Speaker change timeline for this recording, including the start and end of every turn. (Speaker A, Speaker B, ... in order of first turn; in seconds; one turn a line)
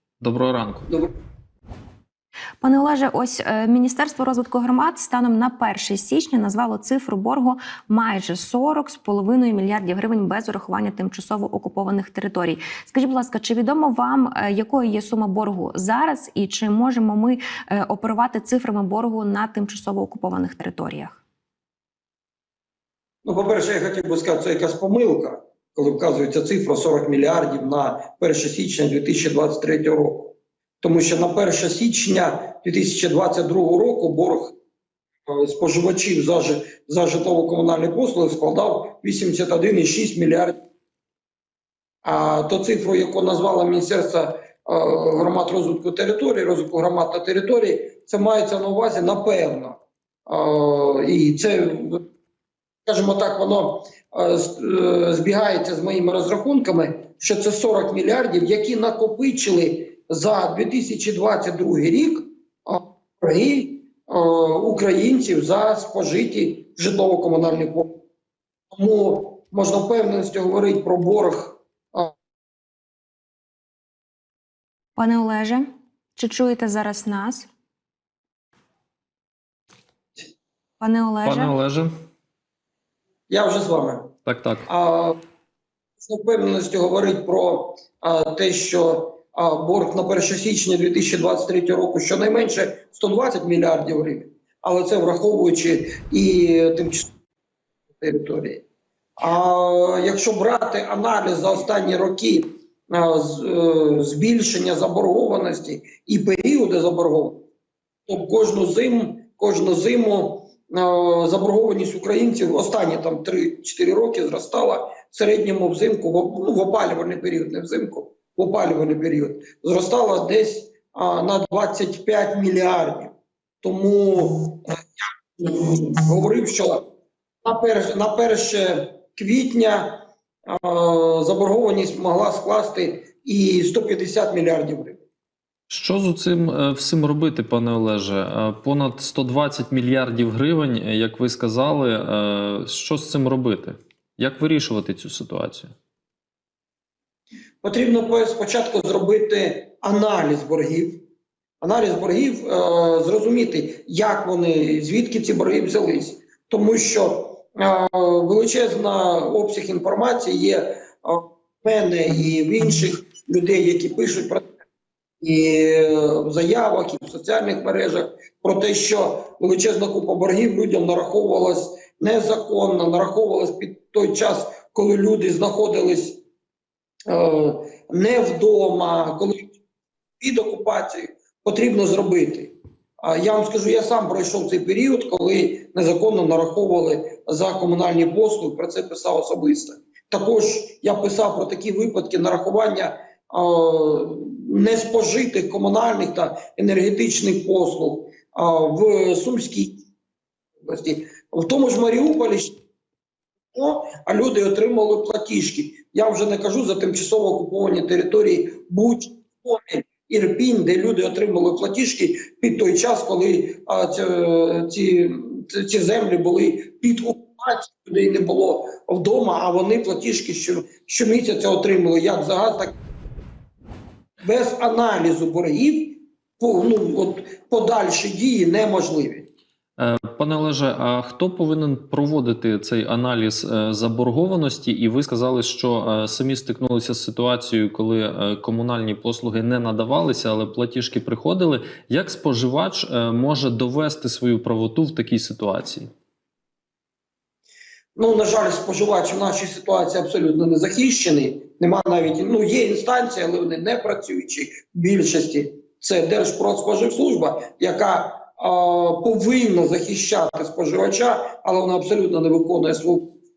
Speaker A: 0.2-0.9
Speaker B: 2.6-21.2
Speaker C: 23.2-34.5
Speaker C: 35.3-40.6
Speaker C: 42.0-52.0
Speaker C: 52.9-68.0
Speaker C: 68.7-72.1
Speaker B: 75.0-77.5
Speaker B: 80.8-81.5
Speaker A: 81.2-81.9
Speaker C: 83.3-84.1
Speaker A: 84.2-84.7
Speaker C: 84.7-85.2
Speaker C: 86.0-97.1
Speaker C: 98.0-98.6
Speaker C: 99.2-107.4
Speaker C: 108.1-124.8
Speaker C: 125.4-126.8
Speaker C: 127.4-135.0
Speaker A: 135.7-145.7
Speaker C: 147.6-151.0
Speaker C: 151.6-164.4
Speaker C: 165.2-176.2
Speaker C: 177.1-179.5
Speaker C: 180.2-199.8
Speaker C: 200.6-202.6
Speaker C: 203.5-222.8
Speaker C: 224.2-229.3
Speaker A: 229.8-245.9
Speaker C: 248.0-263.1